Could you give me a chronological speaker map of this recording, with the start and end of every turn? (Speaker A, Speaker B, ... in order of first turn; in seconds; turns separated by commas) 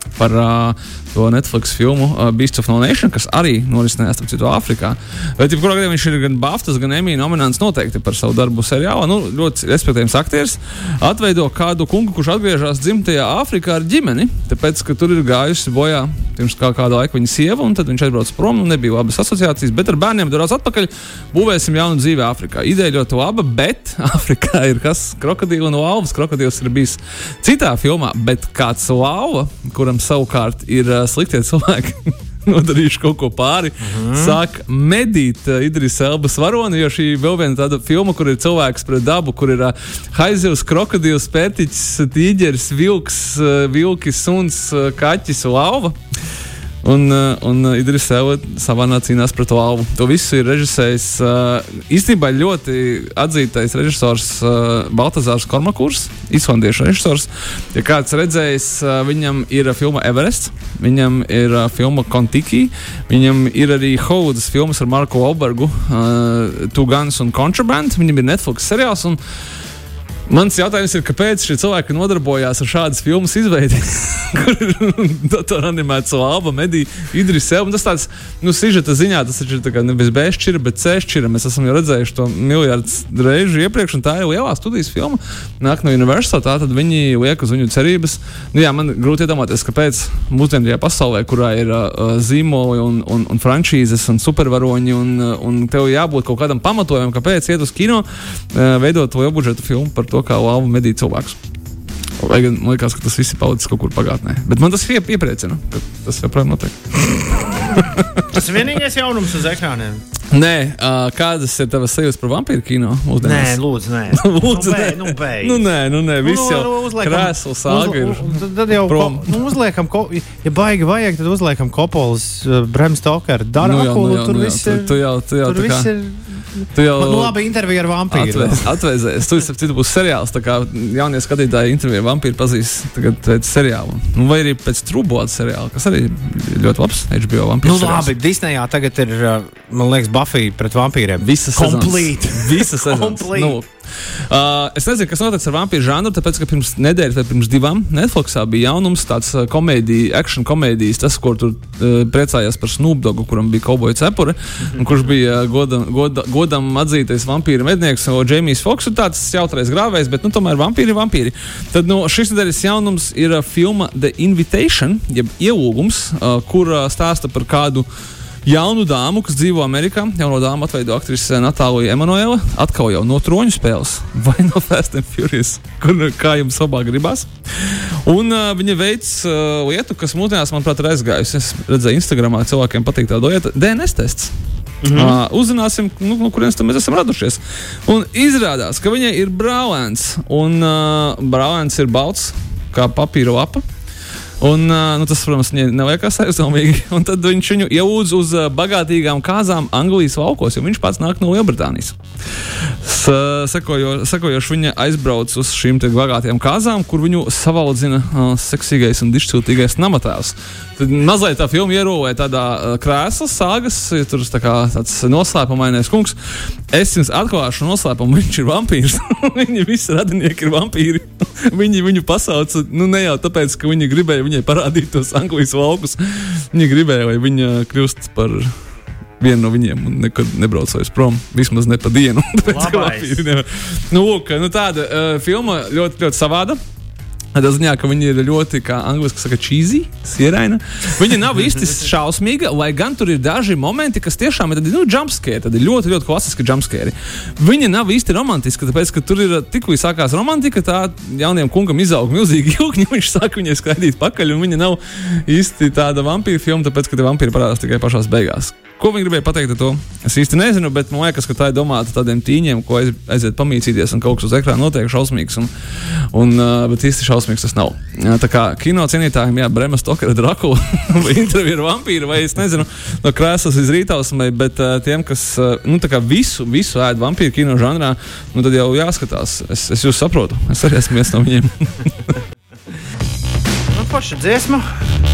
Speaker A: 0.1-46.0, Speaker B: 33.8-34.4, Speaker A: 46.8-69.2, Speaker A: 70.3-101.4, Speaker A: 102.2-108.4, Speaker B: 108.3-110.0, Speaker A: 110.3-113.6, Speaker B: 113.2-115.7, Speaker A: 114.1-119.4, Speaker B: 116.2-128.7, Speaker A: 123.6-125.9, Speaker A: 126.7-127.4, Speaker A: 128.1-138.1, Speaker B: 137.6-143.6, Speaker A: 141.2-143.7, Speaker A: 144.3-167.9, Speaker A: 168.4-184.3, Speaker B: 184.8-185.2, Speaker A: 184.9-193.6, Speaker A: 194.4-202.0, Speaker A: 202.8-216.2, Speaker A: 216.7-228.5, Speaker A: 229.2-236.6, Speaker B: 232.4-233.2, Speaker A: 237.3-282.2, Speaker B: 283.7-284.7